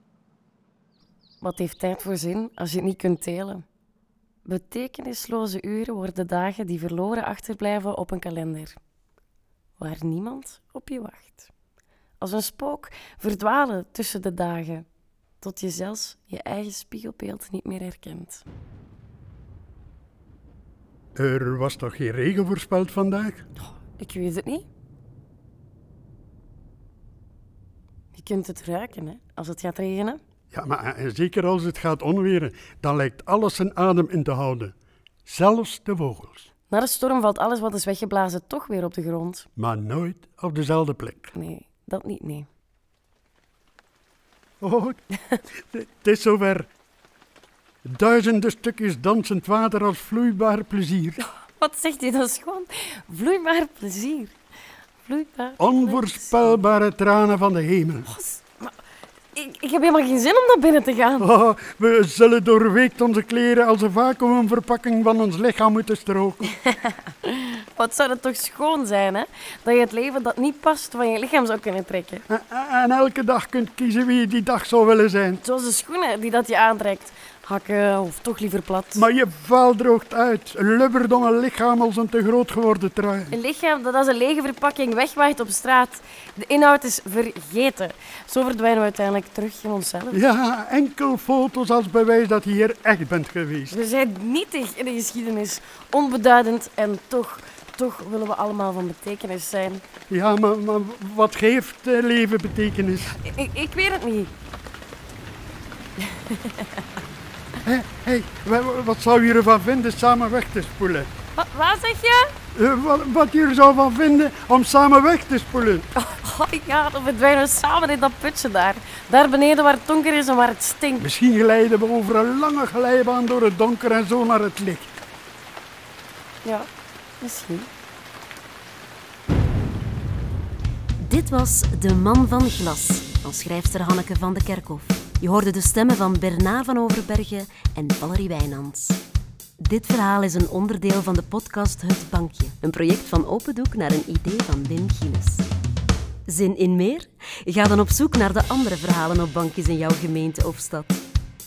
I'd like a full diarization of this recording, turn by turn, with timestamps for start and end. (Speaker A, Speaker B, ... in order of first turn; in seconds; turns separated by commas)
Speaker A: 1.4-3.6, Speaker A: 4.4-8.8, Speaker A: 9.8-11.5, Speaker A: 12.2-14.8, Speaker A: 15.4-18.4, Speaker B: 21.1-23.4, Speaker A: 23.6-24.7, Speaker A: 28.1-30.2, Speaker B: 30.5-34.7, Speaker B: 35.2-36.5, Speaker A: 36.7-39.5, Speaker B: 39.6-41.3, Speaker A: 41.3-42.5, Speaker B: 44.6-45.0, Speaker B: 45.7-46.7, Speaker B: 47.8-51.2, Speaker A: 51.2-54.4, Speaker A: 55.0-56.6, Speaker B: 55.6-58.1, Speaker A: 58.1-58.7, Speaker A: 59.3-61.3, Speaker B: 61.2-66.5, Speaker A: 66.6-72.2, Speaker B: 72.3-75.4, Speaker A: 75.4-79.0, Speaker B: 78.9-83.3, Speaker A: 83.3-90.2, Speaker B: 90.1-93.8, Speaker A: 93.7-99.8, Speaker B: 100.1-103.2, Speaker A: 103.2-104.3, Speaker A: 106.0-106.7, Speaker B: 107.6-111.1, Speaker A: 111.3-112.3, Speaker B: 112.5-115.9, Speaker A: 116.0-121.1, Speaker B: 121.0-125.0, Speaker A: 126.4-126.7, Speaker A: 127.2-127.7, Speaker C: 131.0-139.0, Speaker C: 139.6-145.5, Speaker C: 146.3-151.0